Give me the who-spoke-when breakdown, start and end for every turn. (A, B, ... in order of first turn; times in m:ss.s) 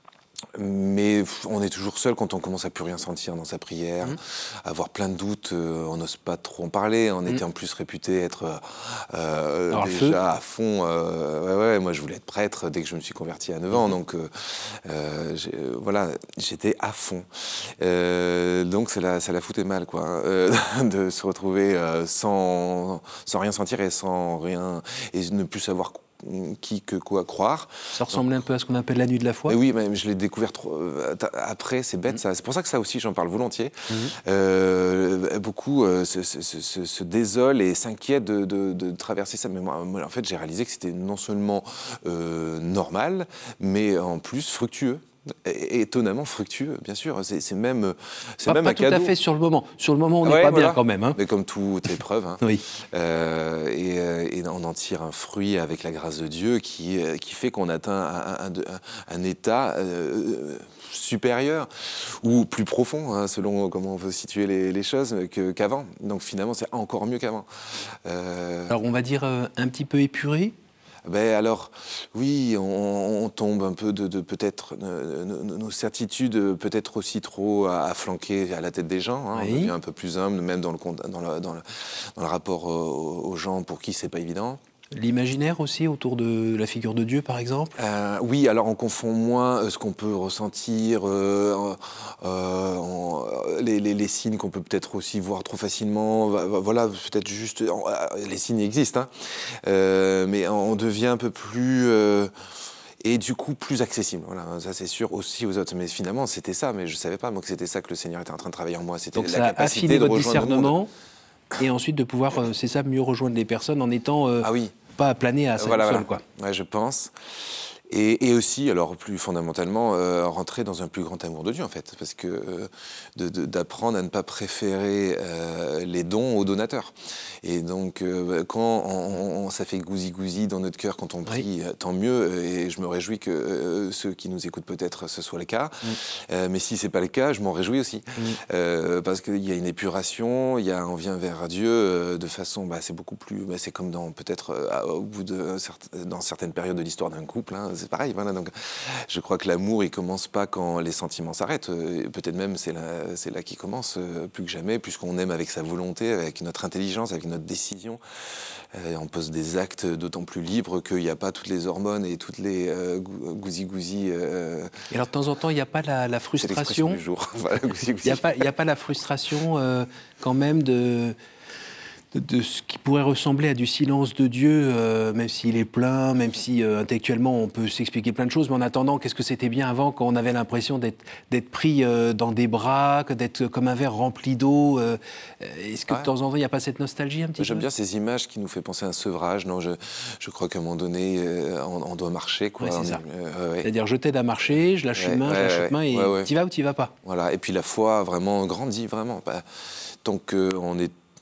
0:00.5-0:28.3 A
0:09.7-0:10.2 B
0:27.9-0:29.6 B
0:29.5-0:49.1 A
0:33.9-0:34.2 B
0:48.4-0:51.2 B
0:50.2-1:08.7 A
1:08.7-1:10.6 B
1:11.0-1:24.6 A
1:19.3-1:19.7 B
1:24.9-1:27.8 B
1:27.8-1:42.3 A
1:43.0-1:50.8 A
1:49.2-1:50.9 B
1:51.6-1:56.2 B
1:54.4-1:54.7 A
1:55.6-2:44.8 A
2:44.9-2:47.0 B
2:46.4-2:48.5 A
2:48.0-2:51.2 B
2:52.1-3:07.7 B
3:07.4-3:13.7 A
3:12.6-3:13.0 B
3:13.6-3:17.0 B
3:15.0-3:16.3 A
3:17.0-3:20.9 A